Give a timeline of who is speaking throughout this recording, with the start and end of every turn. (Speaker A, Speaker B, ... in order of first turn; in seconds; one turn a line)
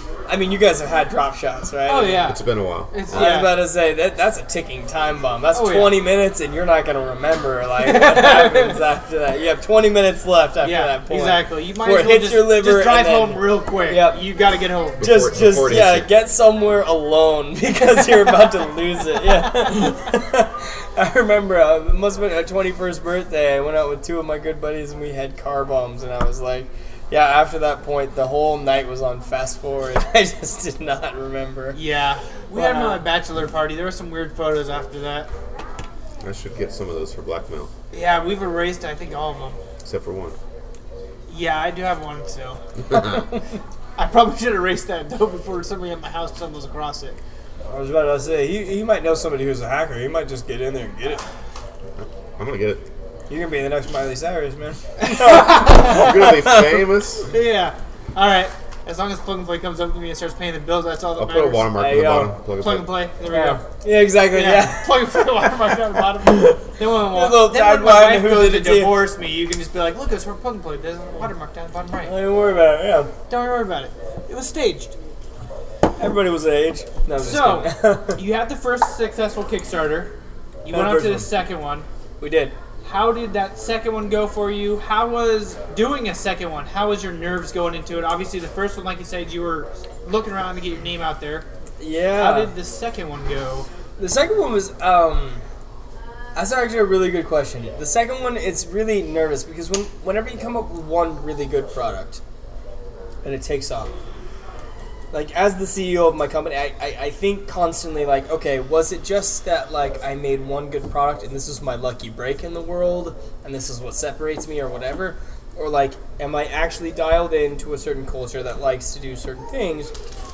Speaker A: 0.3-2.4
Speaker B: 1.9-3.6
Speaker C: 2.2-3.4
Speaker A: 3.1-14.3
Speaker B: 5.5-6.0
Speaker B: 7.8-8.8
Speaker B: 10.6-15.0
Speaker C: 15.0-16.1
Speaker A: 15.0-31.8
Speaker B: 31.7-35.3
Speaker A: 32.5-33.1
Speaker C: 36.2-37.7
Speaker B: 37.9-39.6
Speaker C: 39.8-40.4
Speaker B: 41.3-42.6
Speaker B: 44.0-47.2
Speaker A: 47.7-51.2
Speaker C: 52.0-52.8
Speaker A: 53.3-56.9
Speaker B: 55.0-56.0
Speaker C: 55.3-57.3
Speaker B: 57.3-61.7
Speaker C: 61.1-63.0
Speaker A: 61.8-62.3
Speaker B: 62.6-63.6
Speaker A: 63.3-69.1
Speaker B: 64.3-72.1
Speaker A: 72.0-73.1
Speaker B: 73.3-74.9
Speaker A: 76.0-78.2
Speaker B: 77.2-81.9
Speaker A: 80.7-81.3
Speaker A: 82.2-82.5
Speaker B: 82.8-91.5
Speaker A: 91.8-92.5
Speaker B: 92.2-93.7
Speaker A: 94.0-95.4
Speaker A: 96.3-102.2
Speaker A: 103.2-103.9
Speaker A: 105.1-119.9